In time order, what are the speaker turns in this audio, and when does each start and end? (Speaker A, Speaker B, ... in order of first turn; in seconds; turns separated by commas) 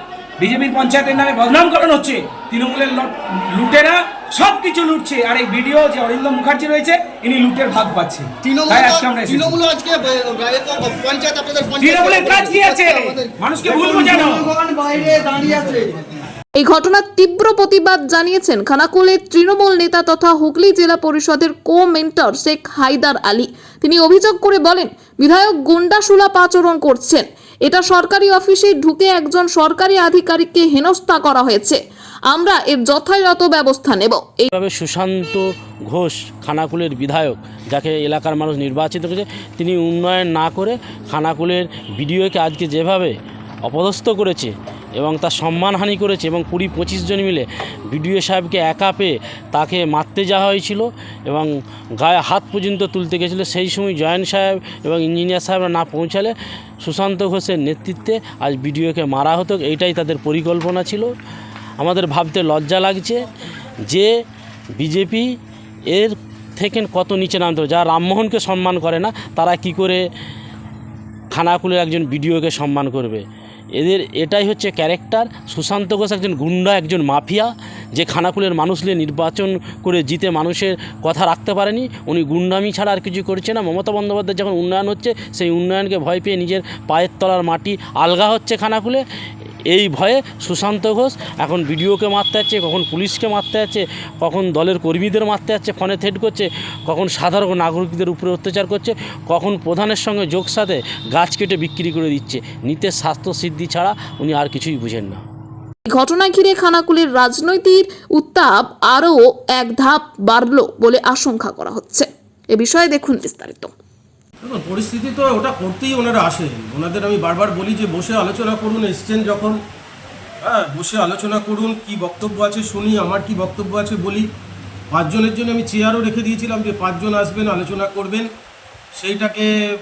Speaker A: 0.4-9.6, Speaker B: 8.4-16.2, Speaker A: 11.8-14.6, Speaker C: 16.6-34.5, Speaker D: 34.5-43.1, Speaker D: 43.6-61.1, Speaker D: 61.8-63.3, Speaker D: 64.7-65.2, Speaker D: 65.9-70.0, Speaker D: 71.3-89.0, Speaker D: 89.7-105.2, Speaker C: 105.8-113.7, Speaker E: 114.4-119.6, Speaker E: 120.4-124.2, Speaker E: 124.9-128.3, Speaker E: 128.9-129.5